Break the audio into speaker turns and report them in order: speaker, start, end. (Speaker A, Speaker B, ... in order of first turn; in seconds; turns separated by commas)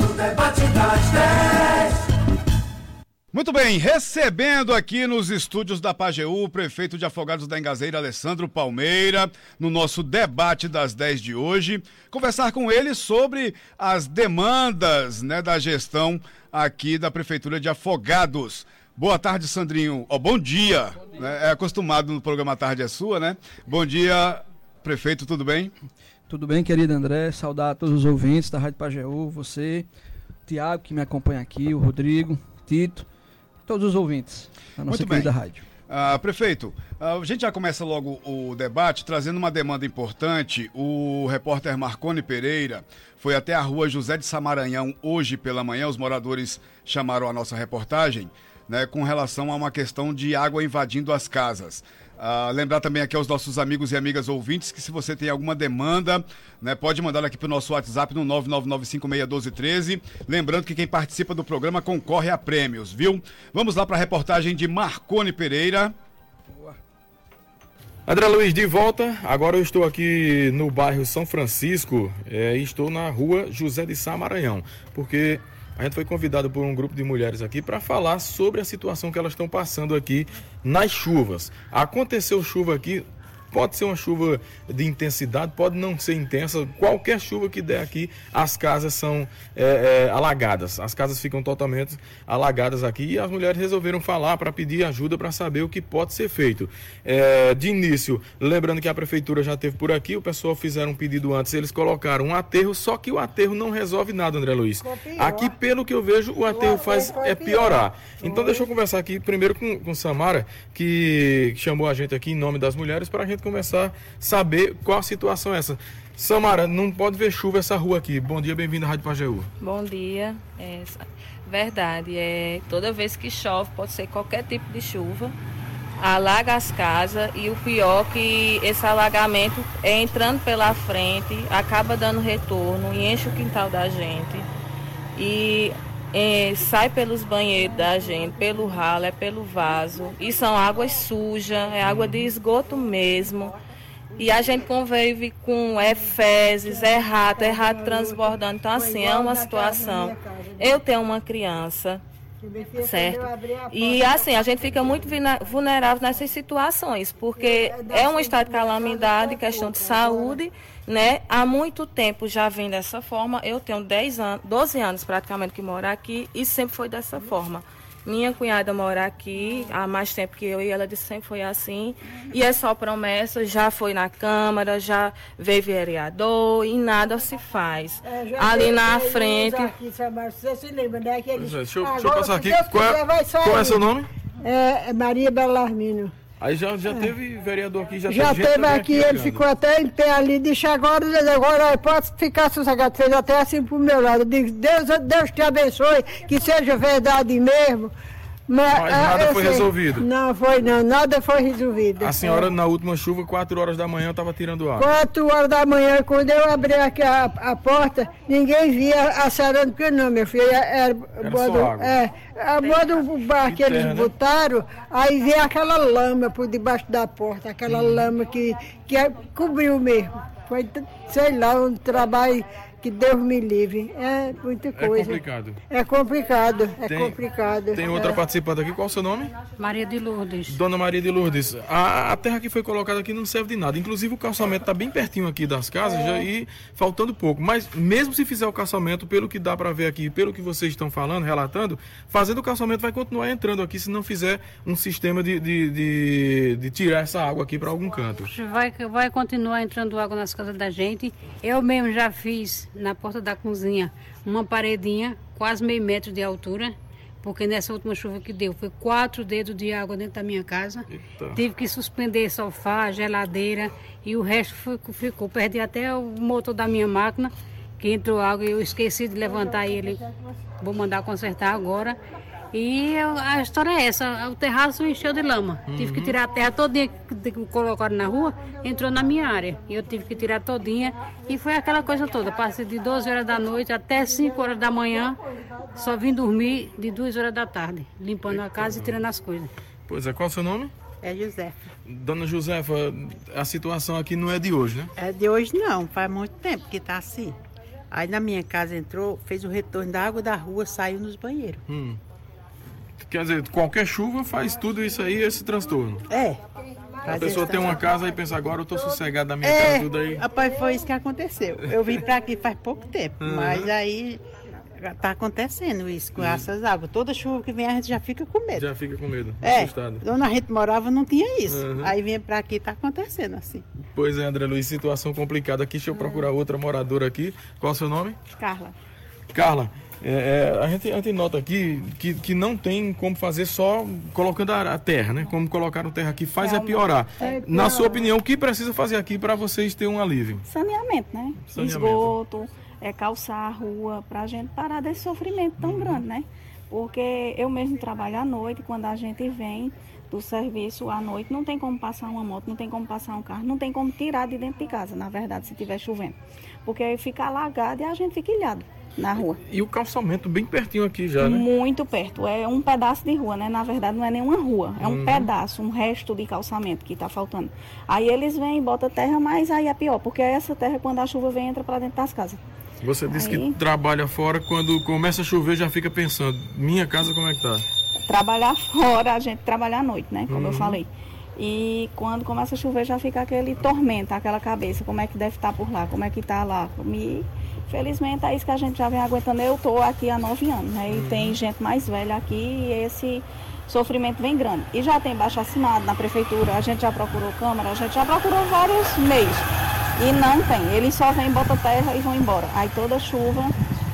Speaker A: 3.3-25.7, Speaker B: 26.3-29.9, Speaker B: 30.5-33.0, Speaker B: 33.6-35.6, Speaker A: 34.9-35.3, Speaker A: 35.9-65.9, Speaker B: 66.5-66.8, Speaker C: 68.1-119.5, Speaker D: 104.8-105.5, Speaker D: 106.5-108.7, Speaker E: 119.6-125.3, Speaker E: 126.0-134.5, Speaker E: 135.2-143.5, Speaker C: 141.8-142.2, Speaker E: 144.2-152.0, Speaker D: 146.6-150.8, Speaker D: 152.4-155.2, Speaker E: 152.8-179.7, Speaker D: 157.4-160.4, Speaker D: 178.1-183.9, Speaker C: 181.3-184.1, Speaker D: 184.4-186.1, Speaker C: 186.4-189.4, Speaker D: 188.1-197.9, Speaker D: 198.5-202.5, Speaker C: 198.7-200.1, Speaker C: 202.0-205.0, Speaker D: 204.8-228.2, Speaker C: 211.2-212.0, Speaker C: 213.4-214.1, Speaker C: 217.7-218.1, Speaker C: 224.8-225.6, Speaker C: 226.8-227.2, Speaker C: 227.7-229.3, Speaker F: 229.6-230.6, Speaker C: 230.5-248.3, Speaker F: 248.3-270.0, Speaker C: 260.9-261.4, Speaker F: 270.6-272.0, Speaker F: 272.5-285.2, Speaker C: 275.7-276.1, Speaker F: 285.7-289.5, Speaker C: 288.2-289.0, Speaker C: 289.9-290.7, Speaker G: 291.0-291.6, Speaker C: 291.9-294.9, Speaker G: 294.9-297.3, Speaker G: 297.9-301.6, Speaker C: 301.7-302.0, Speaker C: 303.0-306.1, Speaker G: 306.1-306.4, Speaker D: 306.9-308.1, Speaker G: 307.0-307.7, Speaker C: 307.1-310.2, Speaker G: 309.4-314.2, Speaker C: 313.2-313.7, Speaker G: 314.8-318.7, Speaker C: 316.2-316.4, Speaker C: 318.5-320.0, Speaker G: 319.4-323.6, Speaker C: 321.5-321.9, Speaker C: 323.9-328.2, Speaker H: 325.9-326.3, Speaker H: 328.4-328.7, Speaker C: 329.3-340.4, Speaker H: 336.4-336.9, Speaker D: 337.2-338.1, Speaker H: 340.5-359.4, Speaker C: 341.4-342.1, Speaker C: 345.6-346.0, Speaker C: 359.4-361.4, Speaker H: 361.1-372.4, Speaker C: 364.8-365.3, Speaker C: 372.8-377.7, Speaker H: 373.1-373.6, Speaker H: 378.1-403.5, Speaker C: 380.3-380.8, Speaker C: 390.9-391.4